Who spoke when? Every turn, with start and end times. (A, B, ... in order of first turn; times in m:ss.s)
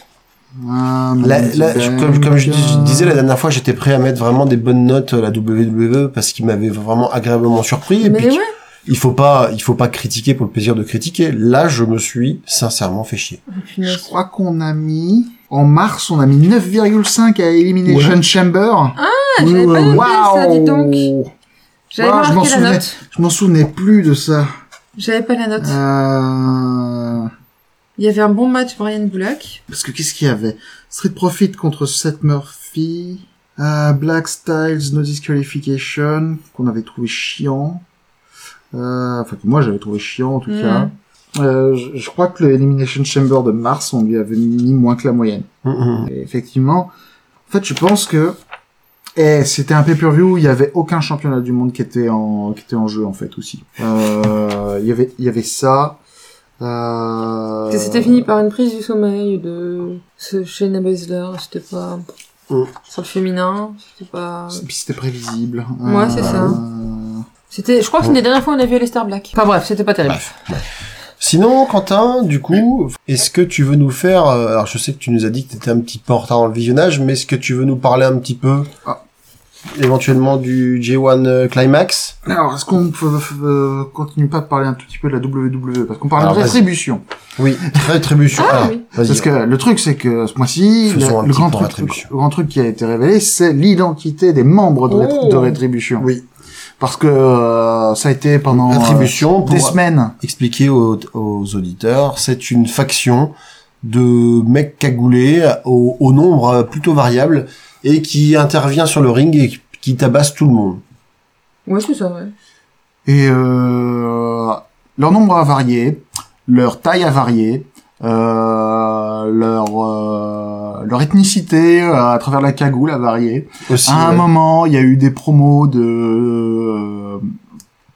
0:00.6-0:03.2 A
0:01.2-0:13.4 B
0:08.0-0:08.5 C
0:13.5-0:14.1 C
0:13.8-0:21.3 A
0:17.8-0:18.2 B
0:19.0-0:21.1 C
0:21.9-0:23.0 C
0:22.0-0:24.5 A
0:25.0-0:25.8 C
0:25.6-0:27.3 A
0:28.0-0:29.6 C
0:29.7-0:37.8 A
0:38.7-0:45.5 A
0:40.5-0:40.9 C
0:45.6-0:46.0 B
0:46.0-0:46.9 A
0:47.5-0:48.4 A
0:49.2-0:56.0 A
0:56.6-0:58.3 A
0:57.7-1:02.0 C
1:02.8-1:04.6 C
1:04.5-1:07.2 A
1:05.8-1:06.6 C
1:06.2-1:06.6 B
1:07.5-1:10.3 C
1:10.1-1:10.6 B
1:11.2-1:18.7 B
1:19.7-1:22.2 B
1:22.2-1:27.0 A
1:26.2-1:26.6 B
1:27.4-1:29.3 B
1:28.3-1:28.8 C
1:29.0-1:36.1 A
1:30.9-1:32.1 B
1:34.9-1:35.6 C
1:36.0-1:36.2 B
1:36.8-1:40.1 A
1:38.5-1:50.8 B
1:51.7-1:52.3 C
1:53.0-2:07.3 A
2:03.7-2:04.3 B